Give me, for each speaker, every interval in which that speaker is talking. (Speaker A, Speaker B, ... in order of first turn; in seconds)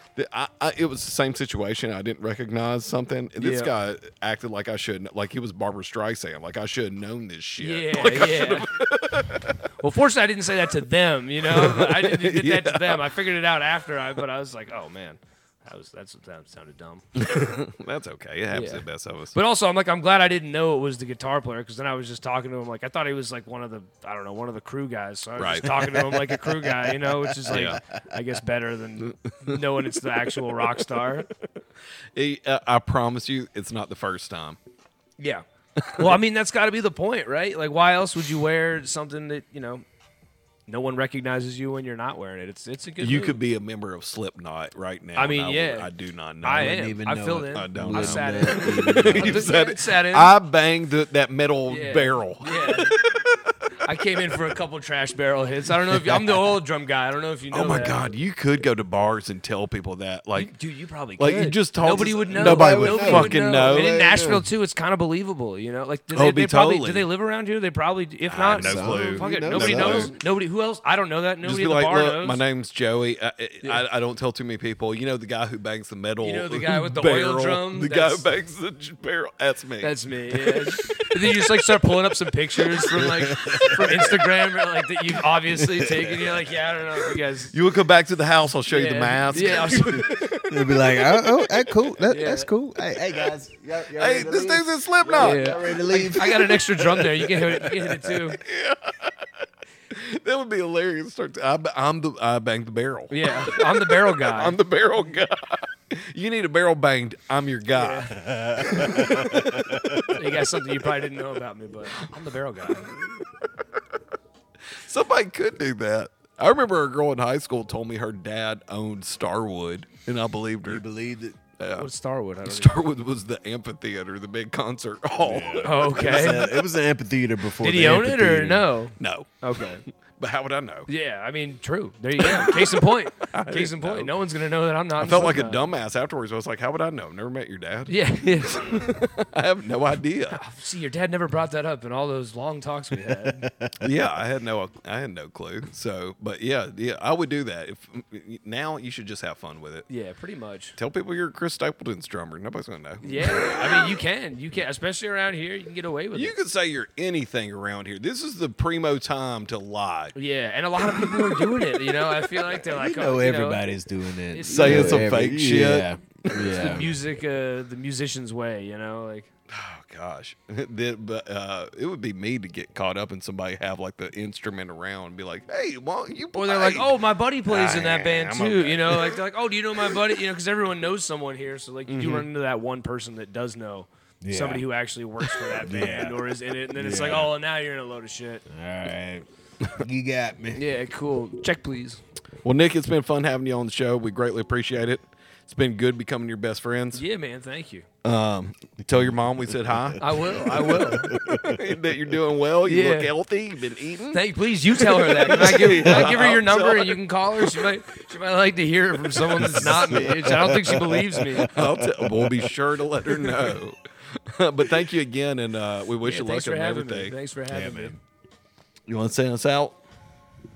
Speaker A: 0.1-9.7, 11.4-13.2, 17.1-19.4, 25.4-25.7, 27.5-27.8, 29.0-29.6, 32.1-34.6, 35.8-36.2, 43.0-46.8, 47.5-53.5, 57.5-60.5, 61.2-64.0, 66.1-67.1, 68.3-70.1, 71.4-81.4, 83.0-84.0, 87.5-90.8, 93.9-99.2, 99.9-110.5, 112.7-113.4, 114.7-120.8, 121.6-121.9, 122.4-126.3, 129.0-130.9, 132.2-134.1, 135.0-140.4, 143.8-149.8, 150.8-153.9, 156.1-160.2, 160.9-161.6, 164.5-166.8, 169.5-176.9, 177.5-179.2, 181.9-182.2, 192.4-197.0, 198.0-200.1, 200.6-204.2, 204.7-207.7, 209.6-210.0, 211.5-217.1, 218.9-219.8
Speaker B: 3.4-3.7, 7.6-8.7, 9.8-17.5, 18.5-31.3, 35.2-35.4, 35.9-39.8, 40.7-43.4, 45.1-45.9, 46.4-50.3, 51.7-53.0, 53.8-58.0, 60.4-72.4, 76.2-78.3, 79.8-87.5, 88.7-90.2, 92.1-92.5, 95.2-98.4, 103.1-104.6, 107.7-109.1, 110.1-112.9, 121.7-122.8, 125.6-126.5, 127.6-129.8, 130.9-135.6, 137.9-138.8, 140.3-143.4, 149.9-150.8, 153.0-156.3, 160.1-163.7, 164.3-165.0, 166.4-169.3, 176.3-188.4, 190.5-192.0, 196.9-197.9, 200.0-201.1, 202.6-203.1, 204.1-211.5, 216.0-217.9
Speaker C: 25.6-28.0, 46.5-49.5, 62.3-64.4, 68.6-70.2, 82.9-84.1, 85.7-86.1, 90.5-96.6, 108.2-110.1, 120.7-121.4, 125.2-128.7, 143.0-143.9, 162.6-166.9, 184.2-184.6, 185.6-186.2, 186.7-187.3, 188.5-190.6, 198.8-201.6, 209.4-212.5, 213.2-213.5, 217.5-218.0